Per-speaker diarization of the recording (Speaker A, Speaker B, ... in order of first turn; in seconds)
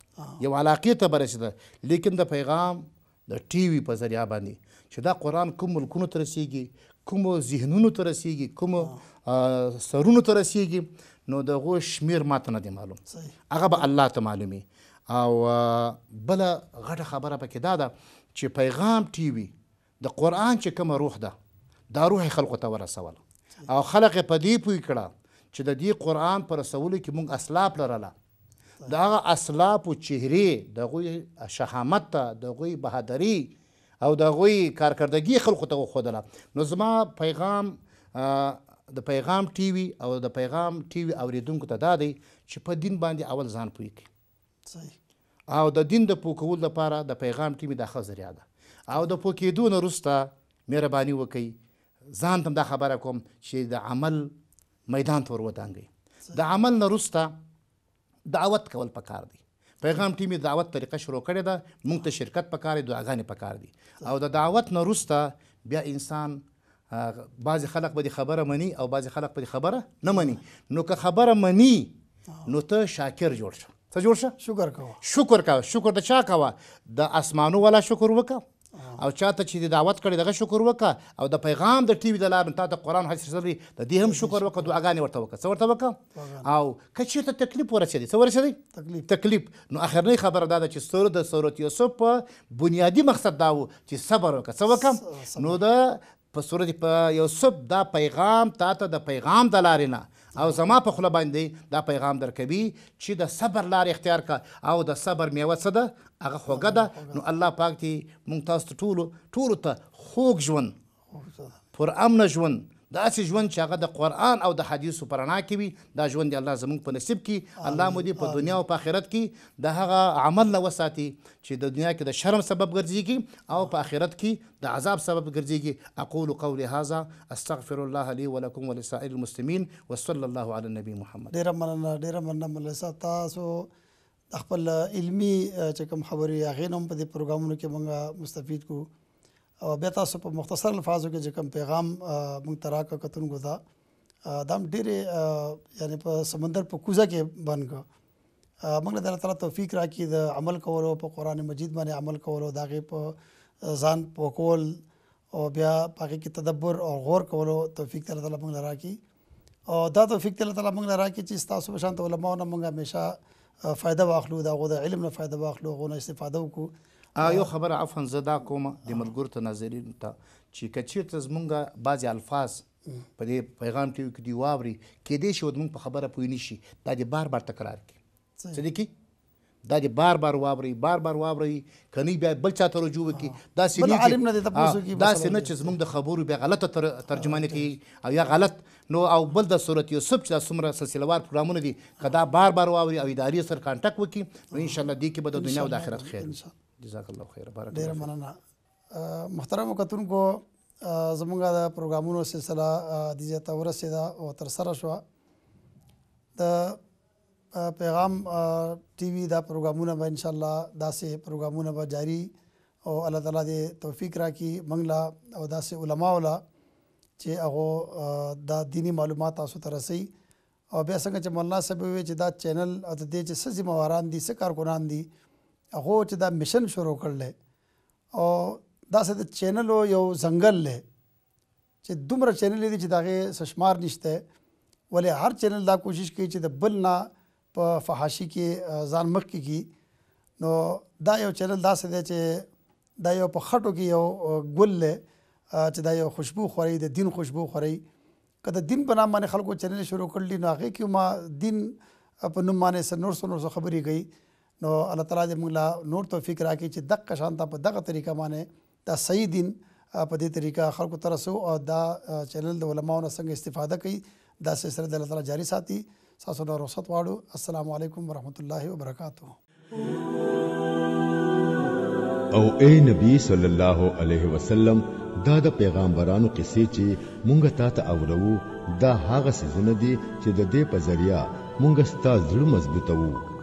Speaker A: 0.4-21.3, 21.9-28.1, 28.9-44.1, 45.5-51.5, 52.1-54.3, 54.9-57.3, 58.3-71.9, 72.5-74.3, 75.0-78.4, 79.0-110.7, 111.7-131.3, 167.2-172.6, 173.2-177.9, 178.5-178.9, 179.6-198.1
Speaker B: 13.1-13.3, 44.7-44.9, 74.4-75.0, 78.8-79.0, 84.0-84.7, 86.1-86.5, 88.7-89.1, 94.8-95.6, 106.5-107.2, 111.1-111.6, 117.6-118.6, 131.3-133.7, 134.3-138.9, 139.7-143.6, 144.3-147.8, 148.6-153.1, 153.7-154.8, 155.3-159.0, 159.7-166.7, 167.2-167.5, 183.2-185.8, 187.1-187.6, 194.5-194.8, 195.3-196.5, 197.7-198.4, 198.9-205.0, 206.4-206.8, 207.5-212.3, 212.8-216.4, 217.2-220.1, 220.7-225.1, 225.7-227.3, 228.2-230.8, 231.8-234.2, 234.9-239.7, 240.4-242.4, 243.0-245.0, 245.5-247.8, 248.4-251.7, 252.2-254.1, 254.6-269.4
Speaker C: 272.3-283.2